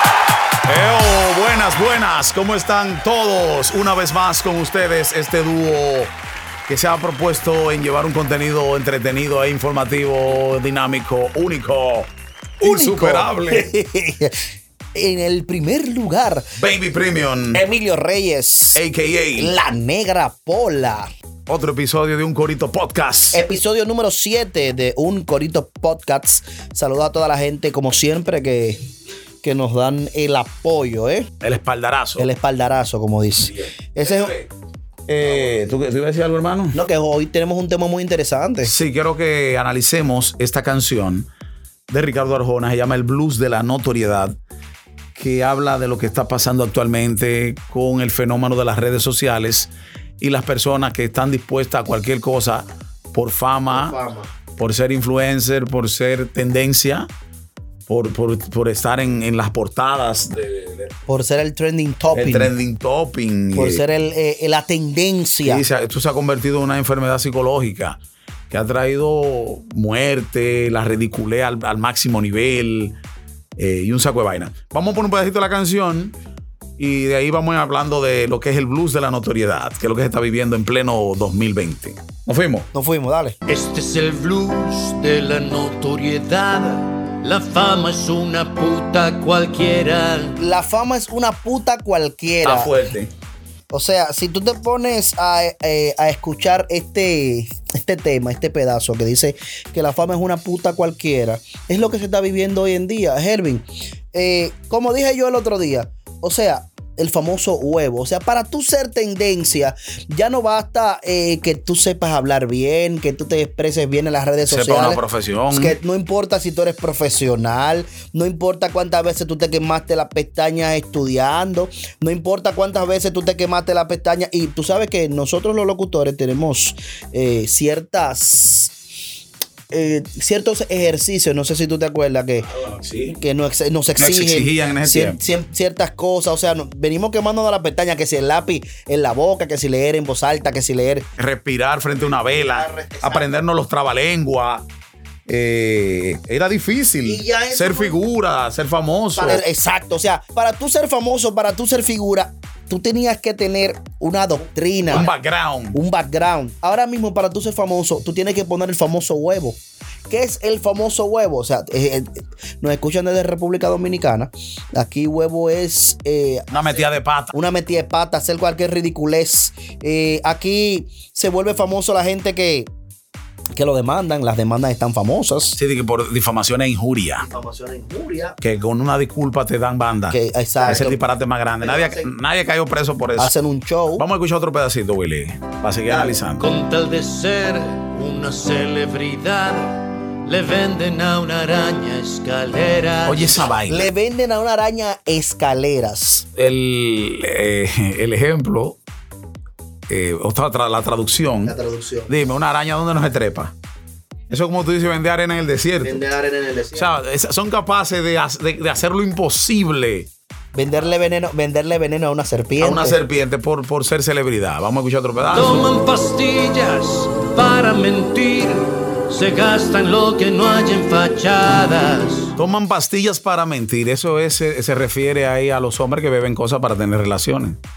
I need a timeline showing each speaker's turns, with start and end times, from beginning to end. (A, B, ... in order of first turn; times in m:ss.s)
0:00.6-0:06.1 A
0:06.7-0:13.7 A
0:12.6-0:16.5 B
0:16.6-0:17.6 A
0:17.5-0:18.8 B
0:18.7-0:19.5 A
0:19.4-0:21.1 B
0:21.5-0:23.4 A
0:23.3-0:28.9 B
0:29.4-0:31.3 B
0:31.4-0:32.3 A
0:32.2-0:34.3 B
0:33.4-0:34.5 A
0:35.1-0:36.8 A
0:35.2-0:35.6 B
0:36.7-0:38.7 B
0:38.6-0:41.3 A
0:41.9-0:44.4 A
0:45.1-0:54.0 A
0:53.7-0:54.3 B
0:54.6-0:57.1 A
0:57.9-1:00.9 A
1:01.1-1:02.5 B
1:02.1-1:03.8 A
1:03.5-1:05.6 B
1:05.4-1:08.0 A
1:08.5-1:13.0 A
1:13.6-1:16.2 A
1:16.8-1:22.7 A
1:22.7-1:23.4 B
1:23.5-1:30.4 C
1:30.4-1:32.8 B
1:32.4-1:33.1 A
1:33.7-2:08.8 B
1:54.4-1:55.8 A
2:09.7-2:12.5 B
2:12.4-2:13.2 A
2:13.1-2:21.1 B
2:14.0-2:15.2 A
2:21.2-2:24.6 A
2:22.0-2:23.4 B
2:25.3-2:29.4 A
2:27.0-2:28.0 B
2:29.2-2:35.1 B
2:34.8-2:35.8 A
2:35.7-2:52.7 B
2:46.5-2:47.3 A
2:53.5-2:55.6 B
2:55.6-2:57.2 A
2:57.2-2:58.4 B
2:58.4-3:03.3 A
3:00.1-3:01.0 B
3:01.6-3:02.1 B
3:03.2-3:04.0 B
3:03.9-3:06.4 A
3:05.8-3:06.2 B
3:06.4-3:13.5 C
3:13.0-3:13.9 A
3:13.7-3:16.3 B
3:16.4-3:18.8 A
3:19.9-3:21.5 A
3:21.4-3:22.2 B
3:22.1-3:23.5 A
3:24.3-3:26.1 A
3:25.8-3:27.0 B
3:26.7-3:30.1 A
3:30.5-3:33.0 B
3:32.6-3:35.7 A
3:35.3-3:42.3 C
3:42.4-3:47.6 A